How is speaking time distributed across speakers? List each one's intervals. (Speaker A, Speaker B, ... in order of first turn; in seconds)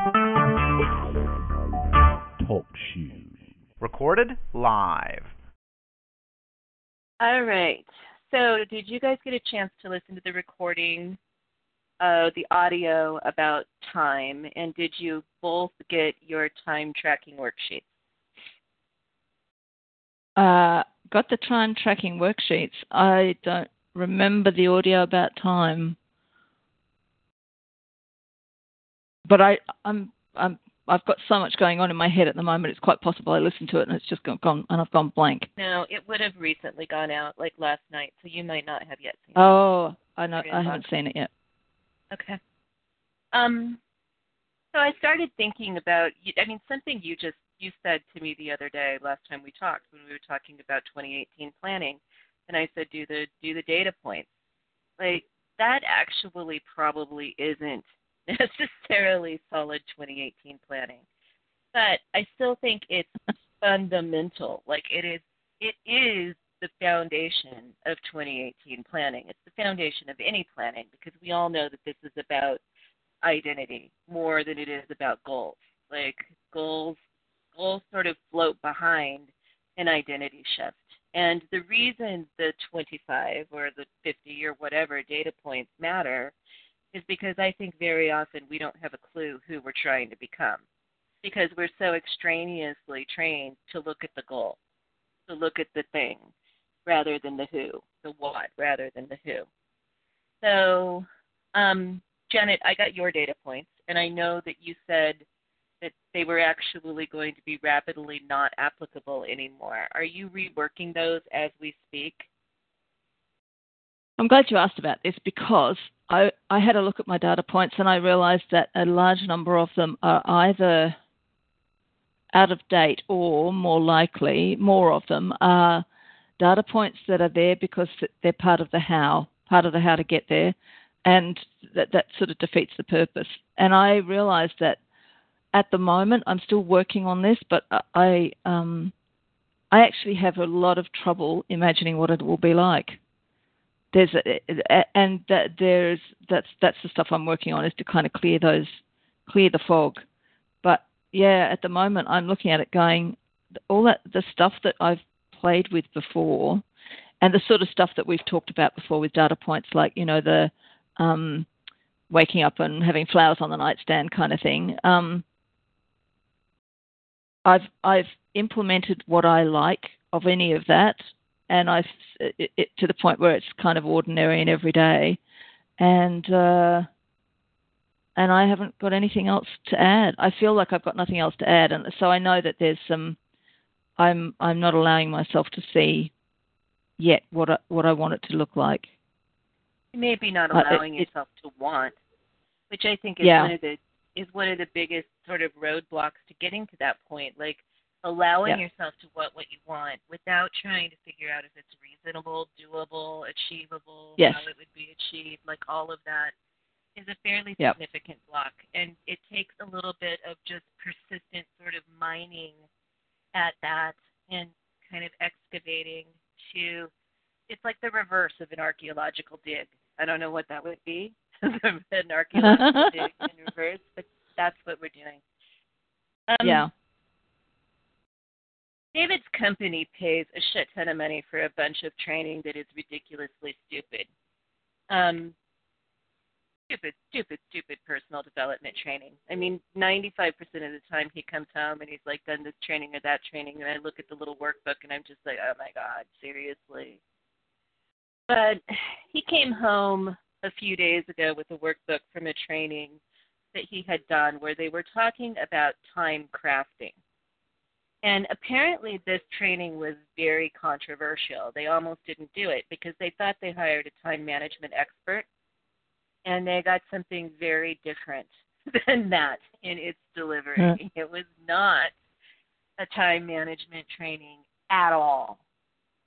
Speaker A: 2.4-5.3
Speaker B: 7.2-11.2, 12.0-17.9, 35.6-39.5, 40.3-40.8, 42.1-42.4, 43.3-43.8, 44.7-54.3, 55.0-61.0, 61.7-72.6, 73.2-77.0, 77.5-86.3, 86.9-90.6, 91.2-94.6, 95.3-96.3, 96.8-99.5, 100.4-105.2, 105.8-112.3, 189.9-191.9, 192.7-206.3, 206.9-212.6, 213.3-216.9, 217.5-225.2, 226.3-226.7, 228.9-234.1, 234.9-235.3, 236.7-247.0, 248.3-253.0, 253.5-256.9, 258.0-265.2, 266.2-271.9, 272.8-275.4
Speaker C: 20.4-26.0, 29.2-35.5, 39.4-41.3, 114.2-121.0, 122.3-125.8, 126.4-134.8, 135.5-138.9, 139.7-143.0, 143.9-150.1, 150.6-153.2, 153.7-156.6, 157.2-161.5, 162.1-165.2, 167.4-175.2, 175.8-176.9, 178.2-183.2, 184.0-186.1, 187.0-188.9, 190.5-191.1, 193.2-193.5, 204.2-204.4, 222.4-222.9, 226.4-226.7